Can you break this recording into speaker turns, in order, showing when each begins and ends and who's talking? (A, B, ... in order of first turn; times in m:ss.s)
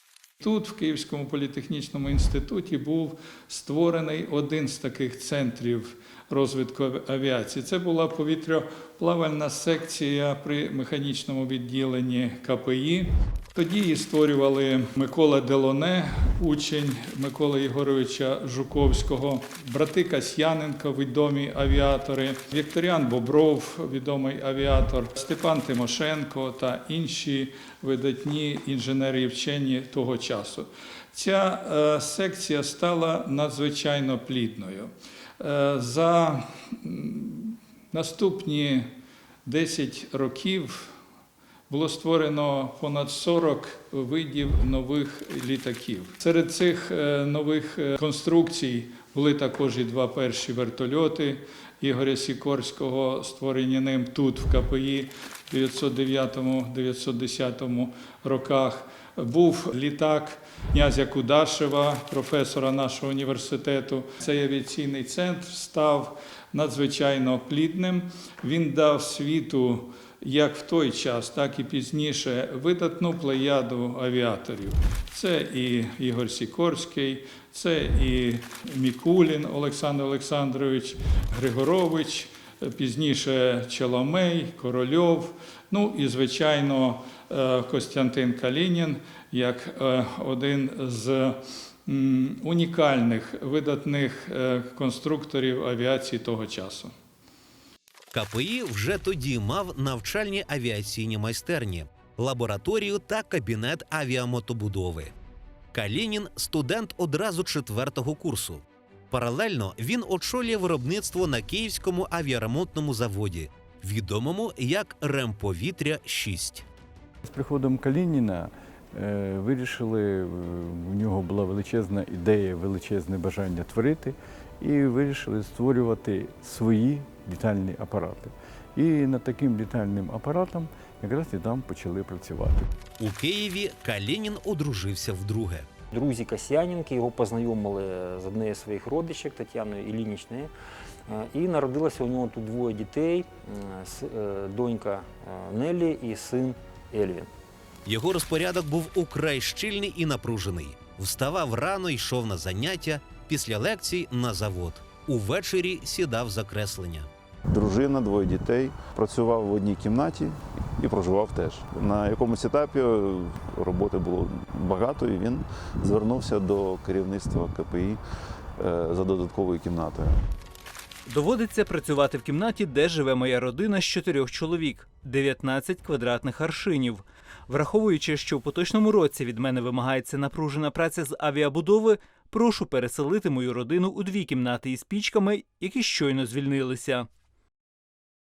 0:00.4-0:38.9 A
0:39.4-0:40.9 A
0:41.7-1:36.9 A
1:38.1-1:45.1 B
1:45.7-1:56.6 B
1:57.2-2:12.7 C
2:13.0-2:15.7 B
2:15.9-2:20.5 D
2:21.1-2:27.3 D
2:27.8-2:37.1 B
2:37.5-2:48.0 E
2:48.6-2:50.2 E
2:51.1-3:07.1 F